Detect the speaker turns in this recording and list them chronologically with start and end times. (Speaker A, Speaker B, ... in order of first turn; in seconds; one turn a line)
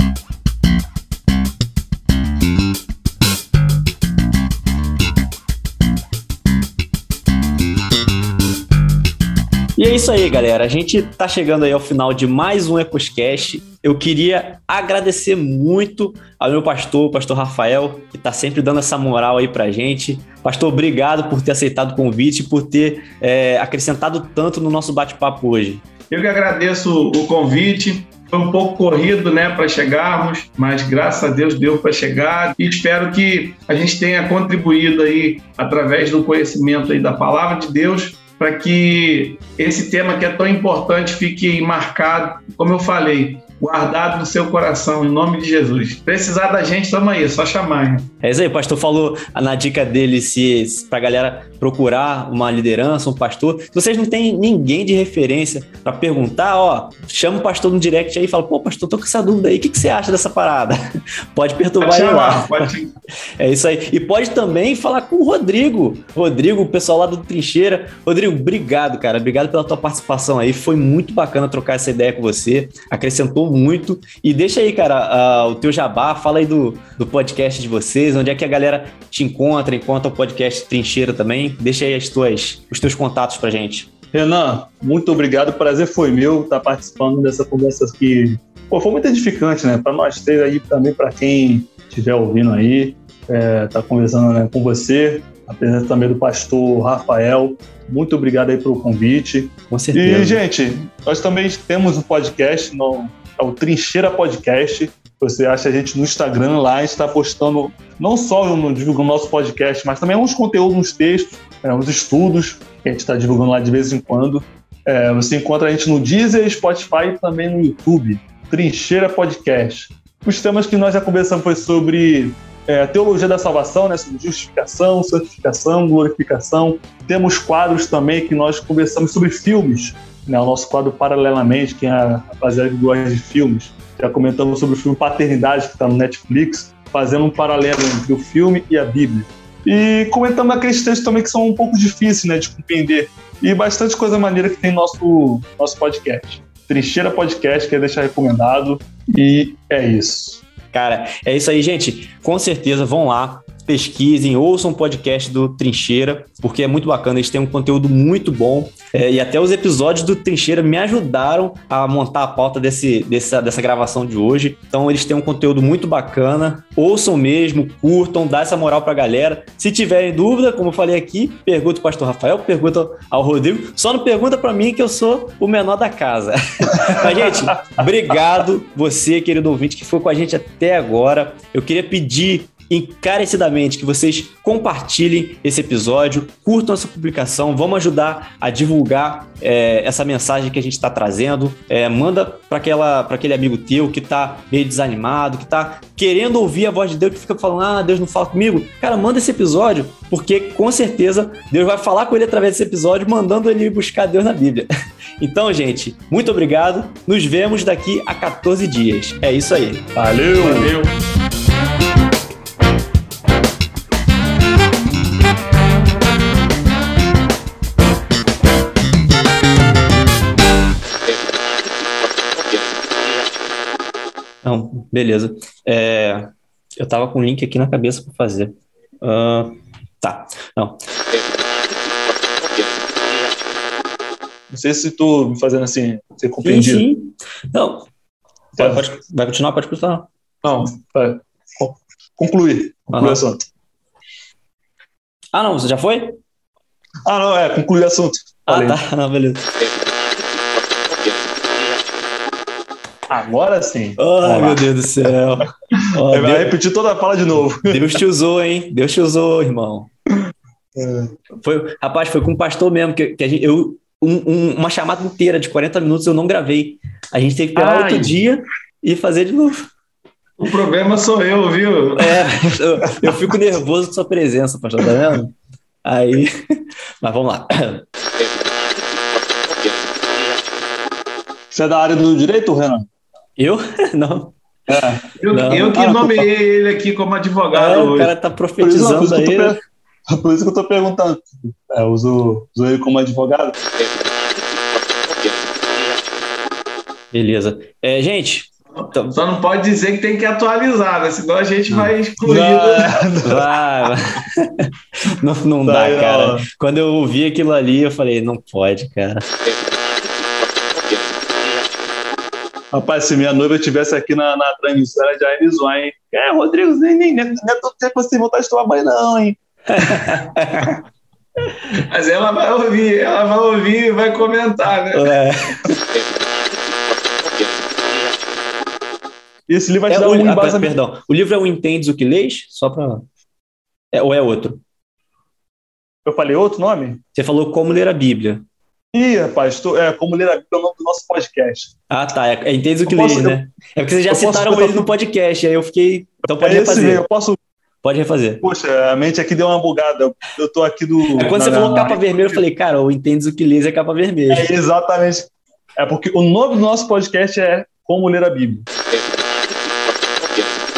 Speaker A: 9.8-25.8
Speaker B: 26.1-48.1
Speaker A: 48.2-60.8
Speaker A: 61.4-62.7
Speaker B: 61.8-62.9
Speaker A: 63.4-83.9
Speaker C: 84.1-150.4
Speaker A: 99.7-100.4
Speaker A: 150.7-204.7
Speaker C: 176.8-177.2
Speaker A: 205.2-209.9
Speaker C: 209.9-210.8
Speaker B: 210.5-210.8
Speaker A: 224.4-230.8
Speaker C: 234.5-236.9
Speaker A: 236.4-237.9
Speaker C: 238.6-238.9
Speaker A: 238.6-240.1
Speaker C: 240.4-243.4
Speaker A: 242.9-243.2
Speaker A: 245.3-246.2
Speaker C: 247.1-248.8
Speaker A: 248.5-249.5
Speaker C: 253.1-254.6
Speaker A: 254.0-256.5
Speaker C: 255.8-257.8
Speaker A: 257.6-259.9
Speaker C: 260.8-261.1
Speaker A: 261.4-269.7
Speaker C: 267.6-268.1
Speaker B: 270.4-272.4
Speaker A: 272.0-276.4
Speaker A: 277.0-277.9
Speaker C: 281.5-282.9
Speaker A: 283.4-286.2
Speaker C: 284.7-285.1
Speaker B: 285.2-288.1
Speaker A: 287.5-289.6
Speaker C: 288.6-293.6
Speaker A: 297.1-299.2
Speaker B: 298.8-303.1
Speaker A: 301.7-301.9
Speaker C: 302.2-303.5
Speaker A: 303.2-309.3
Speaker C: 305.6-306.4
Speaker C: 312.7-319.4
Speaker A: 319.7-320.8
Speaker B: 321.8-325.1
Speaker A: 324.9-325.8
Speaker C: 329.5-330.7
Speaker A: 329.9-333.1
Speaker A: 333.9-334.6
Speaker C: 336.1-337.0
Speaker A: 337.1-338.4
Speaker C: 338.9-341.7
Speaker A: 341.9-347.0
Speaker C: 342.9-343.4
Speaker C: 344.1-344.9
Speaker C: 346.4-347.4
Speaker A: 347.8-348.4
Speaker C: 348.4-352.4
Speaker A: 351.2-354.5
Speaker C: 354.3-358.7